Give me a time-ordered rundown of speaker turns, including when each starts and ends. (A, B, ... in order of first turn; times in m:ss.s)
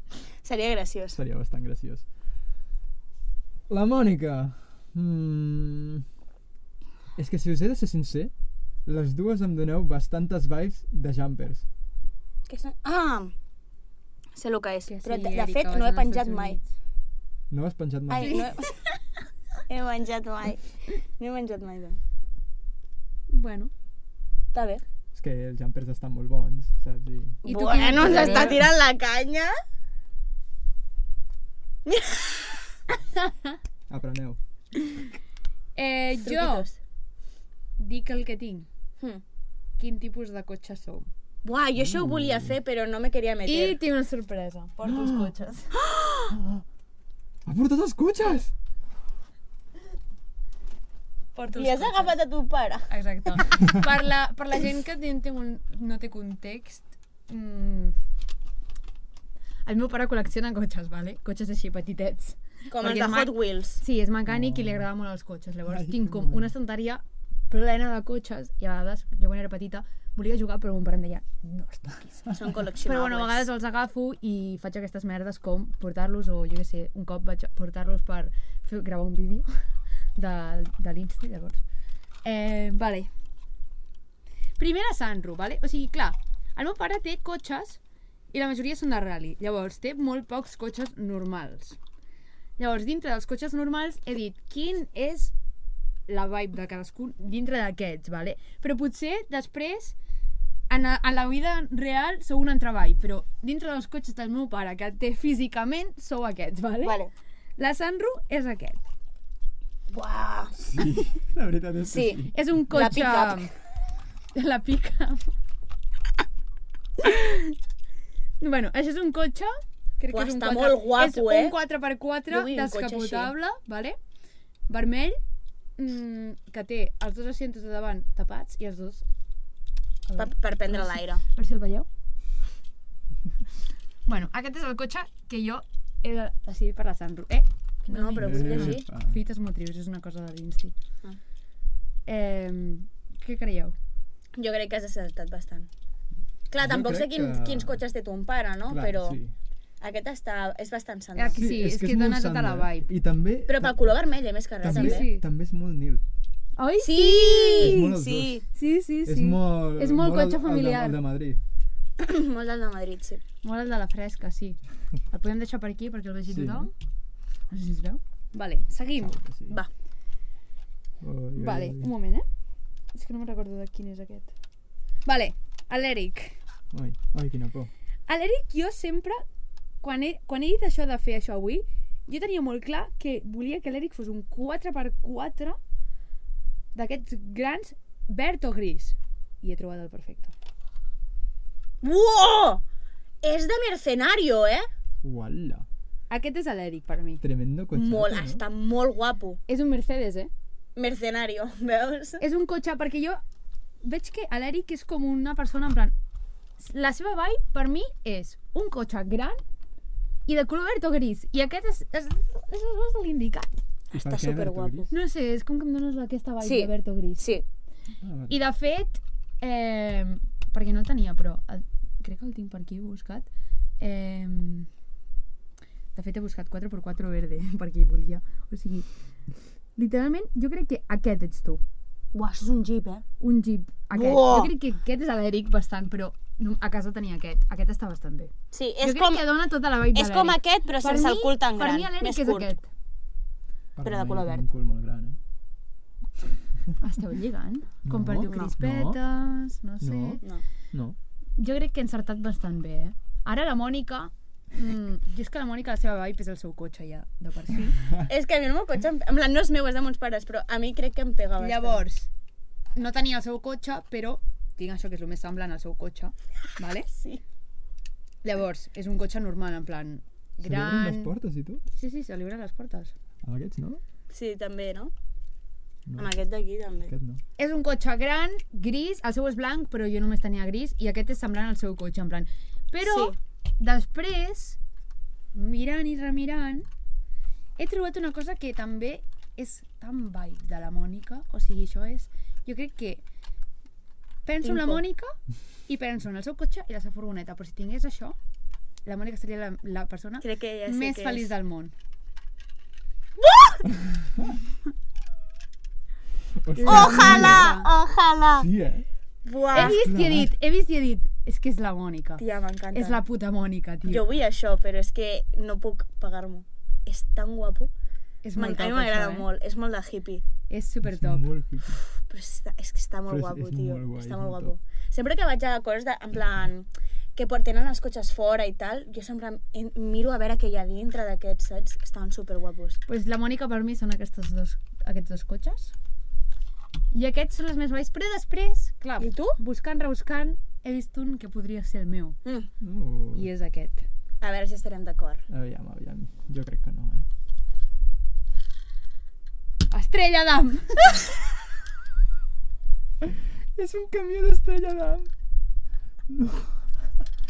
0:00.4-0:01.2 A
0:01.1-0:02.0 B
0:03.7-0:06.0 B
0:07.2-0:08.3 B
0:08.9-0:11.6 B
0:12.5-0:13.3 A
0:14.4-0:16.6 A
0:14.9-0:16.7 C
0:17.5-0:18.5 B
0:18.1-0:18.7 A
0:18.2-0:18.6 C
0:19.7-0:22.0 A
0:23.3-0:23.7 C
0:24.5-0:24.8 A
0:25.1-0:28.7 B
0:27.4-0:28.6 C
0:27.4-0:29.5 A
0:31.9-0:32.6 A
0:33.9-0:34.4 B
0:35.8-0:36.7 C
0:36.2-0:36.8 A
0:37.8-0:38.7 C
0:39.8-0:41.1 C
0:41.4-0:43.8 A
0:41.8-0:42.6 B
0:43.4-0:45.7 C
0:44.8-0:45.3 B
0:45.8-0:46.3 A
0:46.3-0:46.6 B
0:47.4-0:48.5 B
0:51.4-0:52.2 C
0:51.6-0:52.9 A
0:52.9-0:58.0 C
0:59.7-1:19.5 C
1:02.7-1:03.8 A
1:04.3-1:04.9 B
1:05.7-1:06.5 B
1:12.4-1:13.5 A
1:20.2-1:21.6 C
1:22.2-1:23.1 C
1:24.6-1:27.8 C
1:28.3-1:31.8 C
1:32.6-1:35.3 C
1:36.1-1:40.0 C
1:40.7-1:47.0 C
1:46.8-1:47.1 A
1:47.6-1:48.8 C
1:49.9-1:50.6 A
1:50.6-1:52.4 B
1:51.9-1:53.5 A
1:52.3-1:53.5 C
1:54.3-1:55.3 C
1:57.0-1:57.6 C
1:58.4-2:04.0 C
2:00.1-2:01.6 A
2:02.3-2:03.3 A
2:04.7-2:05.2 C
2:05.8-2:09.0 C
2:10.1-2:11.9 C
2:10.2-2:11.2 A
2:14.1-2:20.7 C
2:17.9-2:18.8 A
2:18.2-2:19.2 B
2:22.1-2:23.8 C
2:24.4-2:25.7 A
2:26.5-2:29.2 A
2:26.6-2:27.8 B
2:28.7-2:29.3 B
2:29.8-2:31.4 A
2:31.2-2:32.9 C
2:31.4-2:34.0 B
2:33.5-2:35.1 A
2:34.6-2:36.0 B
2:34.7-2:35.2 C
2:36.6-2:37.8 C
2:36.8-2:38.4 A
2:37.6-2:38.4 B
2:38.5-2:41.0 C
2:39.0-2:41.4 B
2:42.0-2:43.2 A
2:43.4-2:44.6 C
2:45.1-2:46.7 C
2:46.3-2:46.7 B
2:47.5-2:49.2 C
2:49.0-2:49.6 B
2:51.0-2:51.9 B
2:51.4-2:52.3 C
2:52.9-2:54.3 C
2:55.0-2:56.4 C
2:56.7-2:57.7 B
2:58.1-2:59.2 C
2:59.8-3:05.6 C
3:06.8-3:10.3 C
3:11.8-3:12.6 A
3:13.2-3:14.7 A
3:15.0-3:15.7 B
3:16.1-3:17.2 C
3:17.2-3:18.4 B
3:17.7-3:19.4 A
3:19.5-3:20.3 C
3:20.8-3:22.2 A
3:22.2-3:23.2 C
3:23.8-3:25.9 C
3:26.6-3:29.4 C
3:30.3-3:33.5 C
3:33.9-3:34.9 A
3:33.9-3:34.9 B
3:34.9-3:37.3 C
3:36.4-3:37.4 A
3:38.0-3:38.4 B
3:38.3-3:43.3 C
3:43.8-3:44.7 C
3:46.0-3:48.9 C
3:49.8-3:51.6 C
3:52.1-3:53.0 A
3:53.2-4:02.7 C
3:53.9-3:54.5 A
3:58.5-3:59.3 A
3:59.9-4:02.5 A
4:03.8-4:05.2 B
4:03.8-4:04.5 A
4:06.8-4:10.2 C
4:07.8-4:09.0 B
4:08.2-4:08.5 A
4:09.8-4:10.2 B
4:11.4-4:17.8 C
4:18.1-4:21.8 A
4:21.4-4:22.1 C
4:22.8-4:26.9 C
4:26.9-4:27.2 A
4:28.2-4:31.1 C
4:30.4-4:31.6 B
4:31.8-4:32.9 C
4:33.2-4:33.8 B
4:34.1-4:34.9 A
4:35.9-4:36.1 B
4:36.0-4:36.9 A
4:36.9-4:37.2 B
4:37.4-4:44.6 C
4:42.8-4:43.2 A
4:45.3-4:46.7 C
4:47.6-4:53.0 C
4:54.3-4:55.2 C
4:54.4-4:54.8 A
4:55.7-4:58.2 C
4:58.8-5:01.7 C
5:00.2-5:01.3 A
5:03.2-5:03.6 A
5:06.4-5:07.5 B
5:06.5-5:07.7 C
5:06.7-5:08.5 A
5:08.4-5:08.9 B
5:09.2-5:09.8 A
5:09.5-5:14.0 C
5:09.6-5:10.3 B
5:12.2-5:13.0 A
5:13.8-5:17.7 A
5:18.2-5:19.3 C
5:18.4-5:20.2 A
5:20.5-5:21.3 C
5:20.8-5:21.8 B
5:21.9-5:32.8 A
5:23.1-5:24.6 B
5:32.9-5:35.7 C
5:36.9-5:42.2 C
5:39.0-5:39.4 A
5:42.6-5:43.3 B
5:43.1-5:43.9 C
5:44.2-5:45.2 A
5:45.3-5:47.1 B
5:49.7-5:51.0 C
5:53.0-5:55.1 B
5:56.1-5:56.6 B